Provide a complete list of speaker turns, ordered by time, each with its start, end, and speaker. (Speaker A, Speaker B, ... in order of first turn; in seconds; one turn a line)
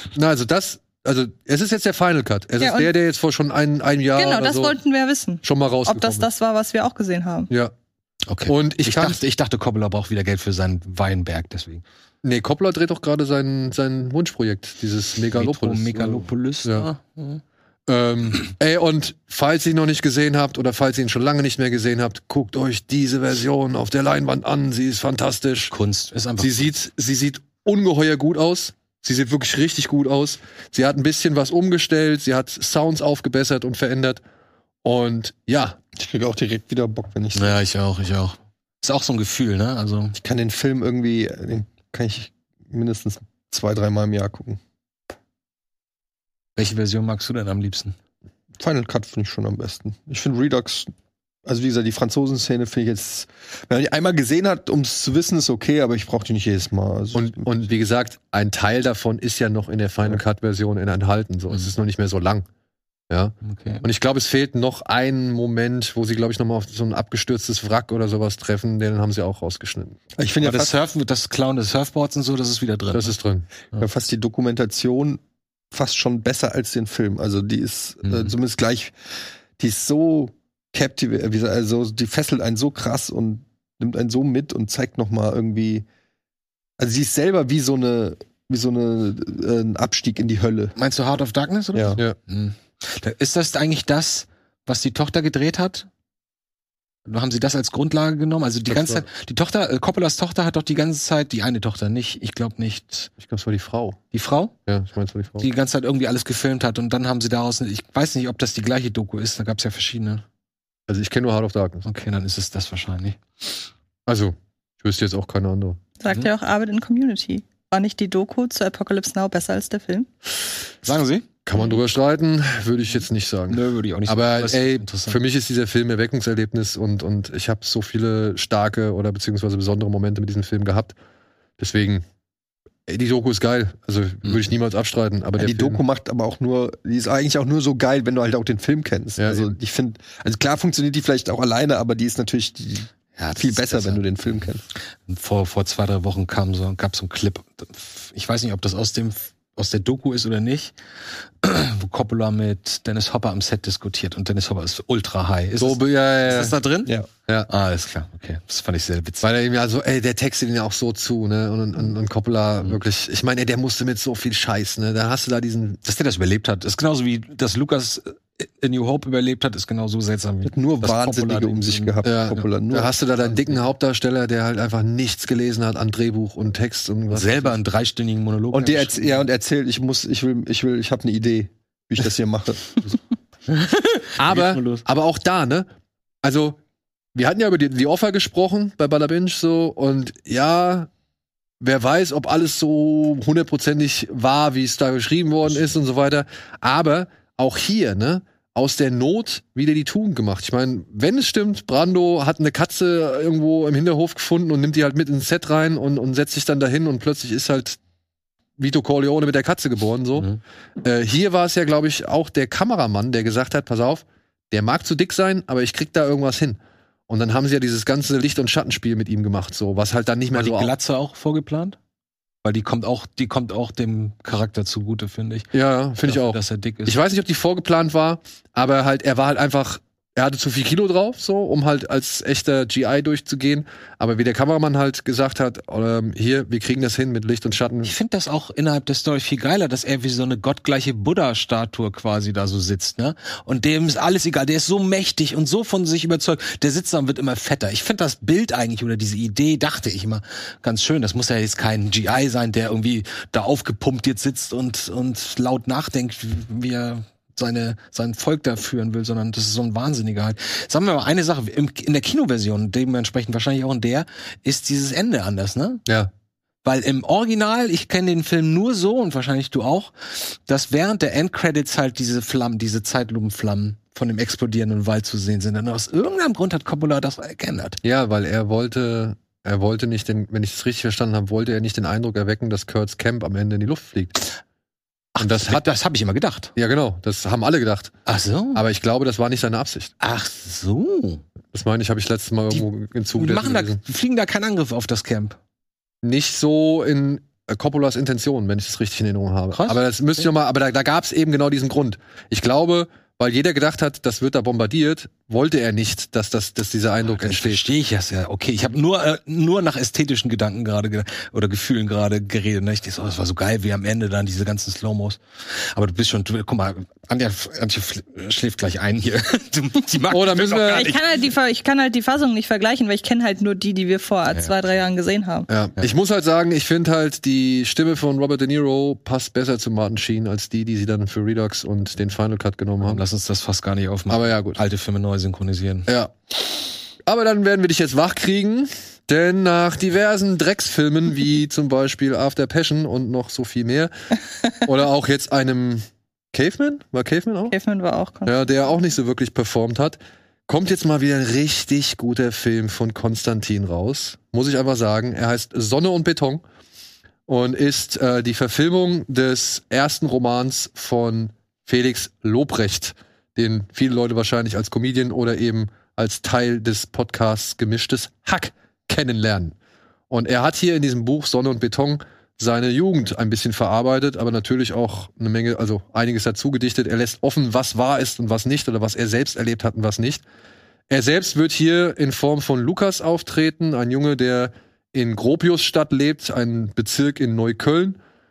Speaker A: 0.1-4.8
Speaker B: 2.6-2.9
Speaker B: 4.1-7.5
Speaker A: 5.4-6.3
Speaker C: 8.3-11.8
Speaker A: 8.4-9.2
Speaker A: 12.2-16.9
Speaker C: 15.3-17.4
Speaker A: 17.9-25.7
Speaker C: 25.7-26.7
Speaker A: 26.4-34.2
Speaker A: 34.8-35.8
Speaker D: 36.0-37.6
Speaker C: 37.3-40.1
Speaker D: 40.1-44.6
Speaker C: 46.6-47.9
Speaker D: 48.6-50.9
Speaker D: 51.4-57.5
Speaker A: 57.1-62.5
Speaker A: 63.1-70.0
Speaker C: 63.4-63.8
Speaker D: 70.2-70.7
Speaker C: 70.4-73.2
Speaker A: 72.9-73.5
Speaker D: 73.8-78.9
Speaker C: 78.0-78.3
Speaker D: 79.6-85.8
Speaker D: 86.8-90.7
Speaker C: 90.8-95.9
Speaker C: 97.0-103.1
Speaker A: 98.7-99.0
Speaker A: 103.2-104.0
Speaker C: 104.1-104.5
Speaker A: 104.7-105.5
Speaker C: 105.4-110.2
Speaker A: 110.9-111.8
Speaker C: 111.8-113.5
Speaker A: 114.1-115.8
Speaker B: 116.0-120.1
Speaker C: 120.8-121.2
Speaker A: 121.5-130.9
Speaker C: 123.5-125.2
Speaker A: 131.6-132.0
Speaker A: 132.9-135.8
Speaker D: 135.4-144.6
Speaker A: 139.2-139.5
Speaker C: 143.2-144.0
Speaker C: 145.1-150.7
Speaker C: 151.4-156.9
Speaker A: 155.6-156.6
Speaker C: 157.5-159.2
Speaker A: 159.2-165.8
Speaker C: 165.8-172.4
Speaker D: 170.4-172.9
Speaker A: 172.0-177.5
Speaker C: 177.1-179.2
Speaker D: 178.5-182.8
Speaker C: 183.5-184.8
Speaker A: 184.2-185.7
Speaker A: 186.2-186.6
Speaker A: 187.1-190.9
Speaker A: 191.6-207.8
Speaker A: 208.6-210.3
Speaker A: 210.8-220.7
Speaker C: 220.3-221.8
Speaker C: 222.4-225.5
Speaker A: 225.5-237.9
Speaker C: 226.0-227.0
Speaker C: 237.8-265.8
Speaker C: 266.6-277.8
Speaker A: 277.8-284.1
Speaker C: 285.1-286.5
Speaker A: 285.2-285.6
Speaker A: 286.6-287.9
Speaker C: 288.1-288.6
Speaker A: 288.5-289.9
Speaker C: 290.0-291.2
Speaker A: 291.5-293.8
Speaker C: 292.5-295.4
Speaker A: 296.0-307.6
Speaker C: 299.5-300.2
Speaker C: 307.0-321.1
Speaker A: 320.1-320.9
Speaker B: 320.7-325.5
Speaker A: 325.5-333.0
Speaker C: 332.8-335.9
Speaker A: 334.1-334.6
Speaker A: 335.9-336.1
Speaker A: 337.1-343.9
Speaker A: 344.6-347.5
Speaker B: 347.5-348.5
Speaker A: 348.2-356.4
Speaker A: 357.3-369.5
Speaker A: 370.1-380.2
Speaker A: 380.9-388.0